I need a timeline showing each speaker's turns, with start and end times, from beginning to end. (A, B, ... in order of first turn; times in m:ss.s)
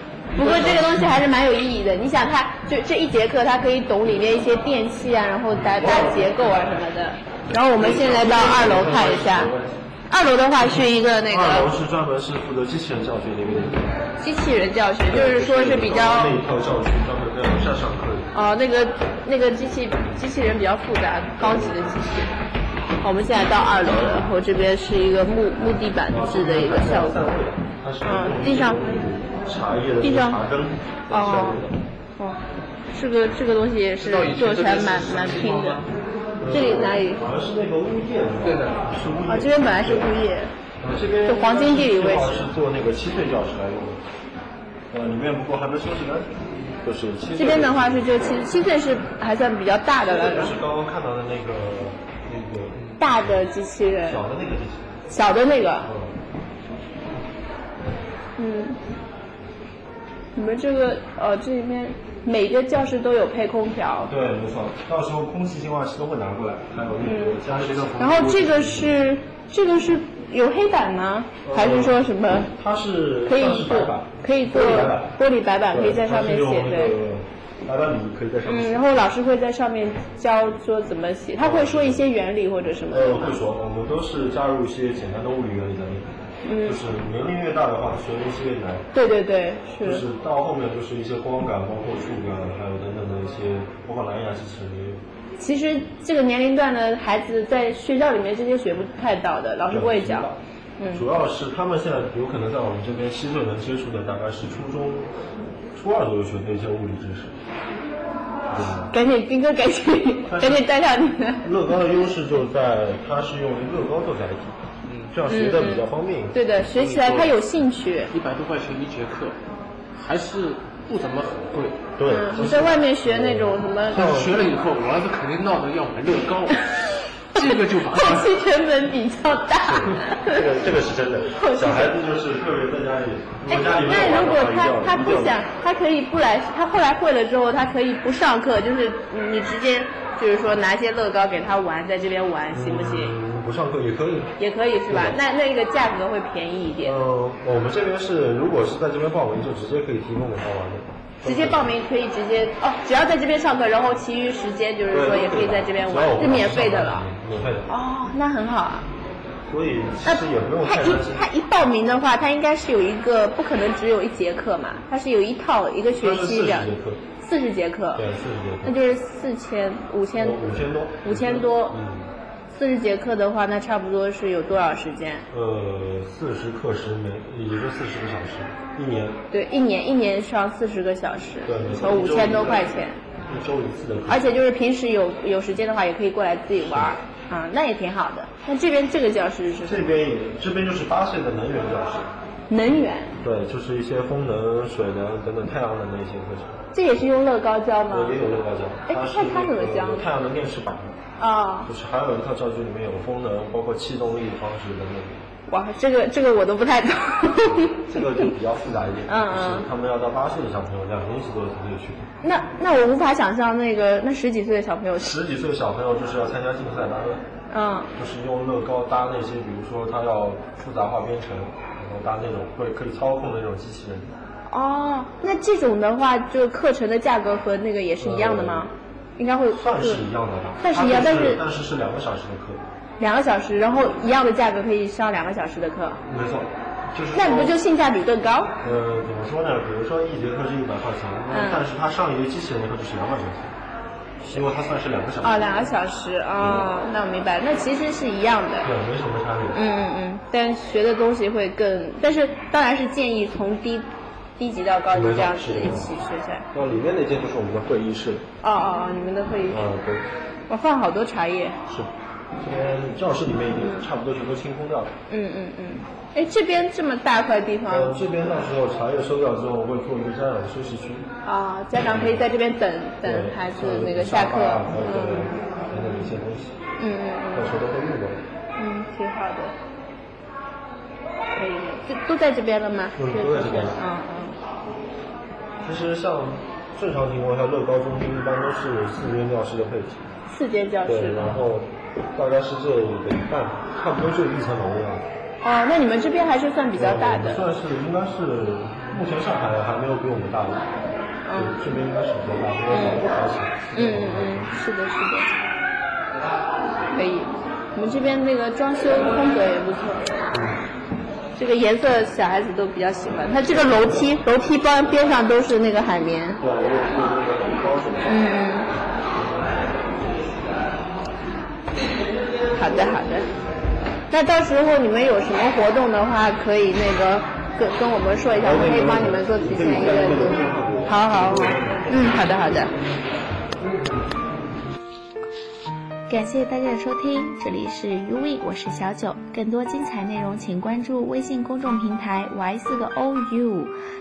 0:00.3-0:09.5 A
0:00.5-0:00.8 B
0:05.8-0:06.2 C
0:07.8-0:09.7 C
0:08.1-0:09.2 B
0:10.1-0:11.7 A
0:11.2-0:13.8 B
0:14.2-0:16.4 A
0:15.0-0:18.3 B
0:18.3-0:22.4 A
0:21.4-0:21.7 B
0:23.0-0:27.4 A
0:26.1-0:31.8 B
0:28.0-0:28.8 A
0:30.0-0:30.4 A
0:31.1-0:31.7 A
0:32.2-0:35.8 A
0:34.0-0:35.9 C
0:36.4-0:40.1 B
0:36.4-0:37.2 A
0:38.4-0:38.8 C
0:39.3-0:40.5 A
0:40.8-0:44.0 B
0:41.2-0:42.5 A
0:44.9-0:48.2 B
0:47.3-0:50.6 A
0:50.0-0:53.5 B
0:53.0-0:54.2 A
0:54.0-0:55.0 B
0:55.1-0:55.9 A
0:55.8-0:56.2 B
0:58.4-0:58.8 A
1:00.3-1:04.1 A
1:04.0-1:09.0 B
1:07.0-1:07.4 A
1:08.0-1:12.5 A
1:11.4-1:15.1 B
1:13.2-1:17.0 A
1:15.7-1:19.0 B
1:18.4-1:23.4 A
1:21.4-1:22.1 B
1:22.9-1:26.0 B
1:26.4-1:26.8 A
1:26.6-1:28.8 B
1:28.9-1:30.0 A
1:29.8-1:35.0 B
1:35.4-1:41.0 A
1:39.7-1:40.4 B
1:40.9-1:45.1 B
1:45.7-1:47.3 B
1:48.5-1:48.9 B
1:48.9-1:51.5 A
1:50.2-1:50.7 B
1:51.4-1:54.6 B
1:54.8-1:55.2 C
1:55.1-1:56.4 B
1:55.3-1:58.1 A
1:56.7-1:57.4 C
1:58.1-1:59.4 C
2:00.0-2:01.8 C
2:02.0-2:04.4 B
2:02.1-2:04.1 A
2:03.9-2:08.3 C
2:07.4-2:10.5 A
2:09.6-2:15.4 B
2:11.4-2:12.0 A
2:13.5-2:23.2 A
2:22.5-2:24.3 B
2:24.4-2:27.0 A
2:24.9-2:25.2 B
2:26.8-2:31.7 B
2:31.2-2:37.1 A
2:34.9-2:37.7 B
2:37.6-2:38.9 A
2:39.5-2:41.3 B
2:40.0-2:48.0 A
2:46.0-2:47.0 B
2:47.9-2:48.8 B
2:48.6-2:51.8 A
2:50.1-2:52.1 B
2:52.5-2:55.2 A
2:55.3-2:59.2 B
2:59.3-3:03.0 A
3:01.4-3:02.7 B
3:03.2-3:04.3 B
3:04.1-3:09.9 A
3:06.6-3:06.9 B
3:09.6-3:12.1 B
3:12.5-3:13.1 A
3:13.2-3:16.6 B
3:16.7-3:18.2 A
3:17.9-3:21.0 B
3:18.9-3:20.1 A
3:21.2-3:21.7 A
3:21.6-3:25.2 B
3:25.5-3:28.3 A
3:27.4-3:32.0 B
3:29.0-3:29.7 A
3:32.2-3:35.2 A
3:35.0-3:37.2 B
3:37.5-3:37.9 A
3:37.9-3:44.1 B
3:44.5-3:50.0 A
3:48.0-3:48.7 B
3:49.5-3:52.6 B
3:50.6-3:51.4 A
3:53.0-3:56.0 A
3:56.0-3:57.6 B
3:57.1-3:58.6 A
3:58.6-4:03.5 B
4:01.3-4:01.6 A
4:04.2-4:05.7 B
4:05.2-4:08.7 A
4:06.4-4:06.7 B
4:08.6-4:09.6 B
4:09.5-4:13.9 A
4:14.4-4:16.4 A
4:14.9-4:15.9 B
4:16.5-4:18.2 B
4:18.4-4:19.6 A
4:19.5-4:20.1 B
4:20.5-4:21.6 A
4:21.7-4:24.9 B
4:23.6-4:23.8 A
4:25.1-4:28.1 A
4:27.7-4:31.1 B
4:31.2-4:35.4 A
4:31.8-4:32.2 B
4:33.0-4:36.6 B
4:36.8-4:37.5 A
4:37.3-4:38.2 B
4:38.6-4:39.5 A
4:41.3-4:44.4 A
4:43.0-4:43.8 B
4:45.6-4:50.0 B
4:50.3-4:51.4 A
4:50.8-4:55.0 B
4:55.4-4:57.4 A
4:56.7-5:00.7 B
5:01.2-5:01.7 A
5:01.3-5:04.6 B
5:02.7-5:03.1 A
5:03.7-5:05.3 A
5:06.9-5:10.2 A
5:10.3-5:10.6 B
5:11.4-5:16.4 A
5:13.4-5:14.0 B
5:16.4-5:18.2 B
5:18.0-5:18.7 A
5:22.5-5:23.3 A
5:24.1-5:32.7 A
5:28.4-5:32.0 B
5:36.1-5:43.7 D